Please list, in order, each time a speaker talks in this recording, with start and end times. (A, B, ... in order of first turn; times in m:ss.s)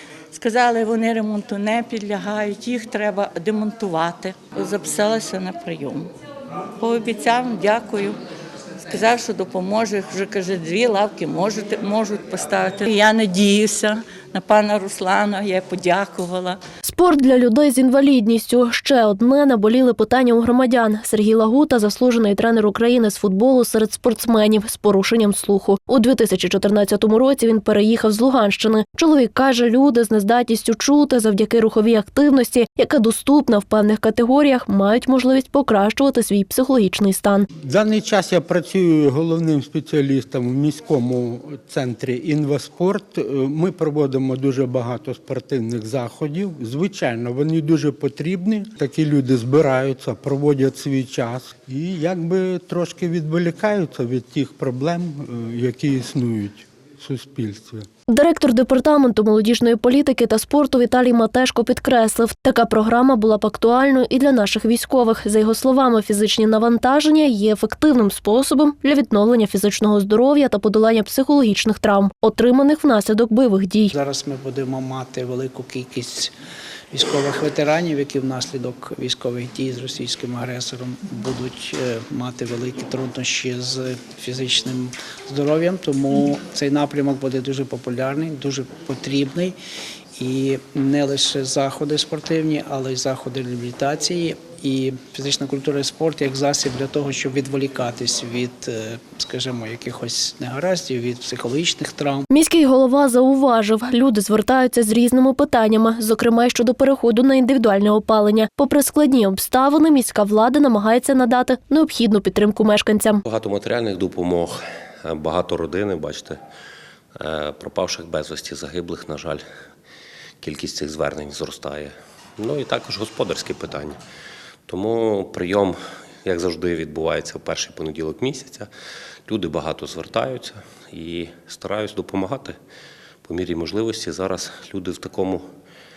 0:00.3-0:06.1 A
0:06.8-0:08.2 A
0:08.9-0:16.6 A
0:16.8-0:37.5 B
0:37.6-0:57.8 C
0:58.1-1:14.0 B
1:14.0-1:16.3 D
1:16.9-1:29.6 D
1:30.2-1:42.3 D
1:42.3-1:53.2 B
1:53.2-1:56.4 E
1:57.2-1:59.4 E
2:00.4-2:04.0 E
2:04.7-2:08.7 E
2:09.3-2:12.6 E
2:13.2-2:15.4 E